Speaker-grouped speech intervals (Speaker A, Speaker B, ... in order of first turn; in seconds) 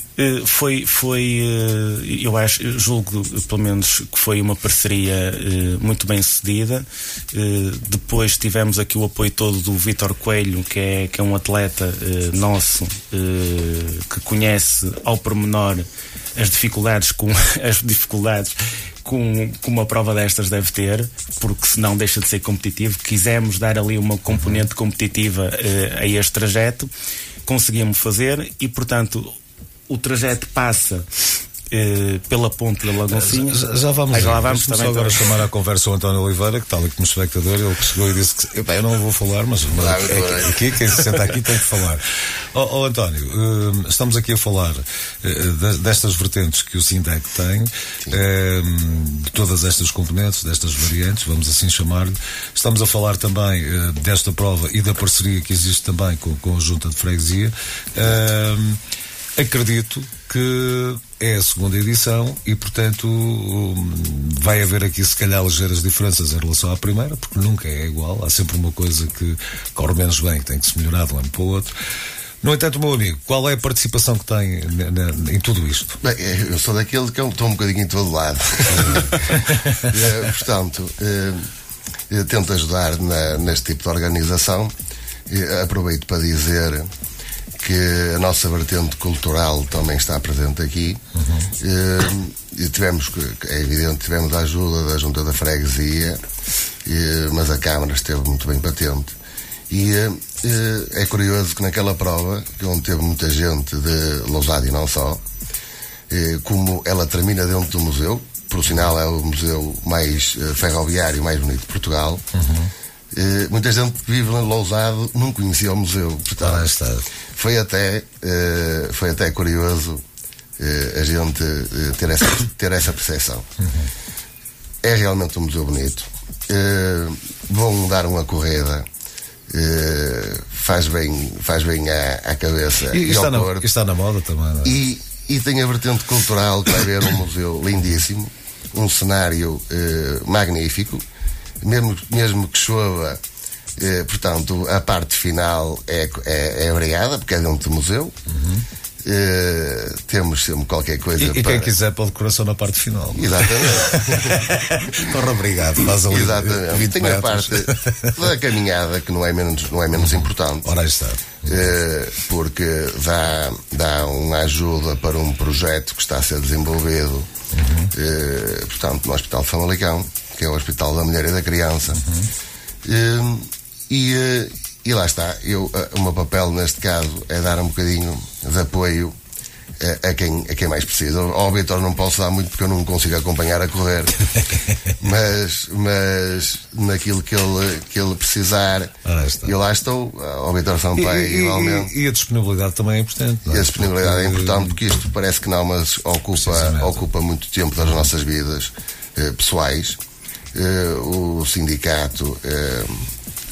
Speaker A: 0.2-26.9, 27.5-29.4, 29.9-31.1, 31.7-35.3
Speaker B: 24.3-24.6, 33.1-58.8, 59.4-71.7, 72.4-76.0, 78.7-79.9, 91.1-91.5, 112.3-112.7, 116.4-117.1, 123.6-123.9, 132.9-134.8, 148.3-148.7, 151.2-158.3, 159.9-161.7, 167.5-167.9, 171.9-172.3, 189.0-189.6, 190.9-194.8, 196.3-197.1, 197.8-198.1
Speaker C: 39.7-41.3, 76.0-81.5, 82.1-84.7, 85.3-86.9, 87.6-91.0, 91.6-96.2, 96.8-99.1, 99.7-105.2, 106.1-112.2, 113.1-116.7, 117.3-120.0, 120.6-123.5, 124.8-128.8, 129.5-133.6, 134.6-141.0, 141.6-143.2, 143.8-148.2, 149.0-151.7, 153.1-155.1, 155.9-160.7, 161.5-167.3, 167.9-172.0, 172.8-179.1, 179.8-184.5, 185.0-191.9, 193.5-200.0, 200.5-203.1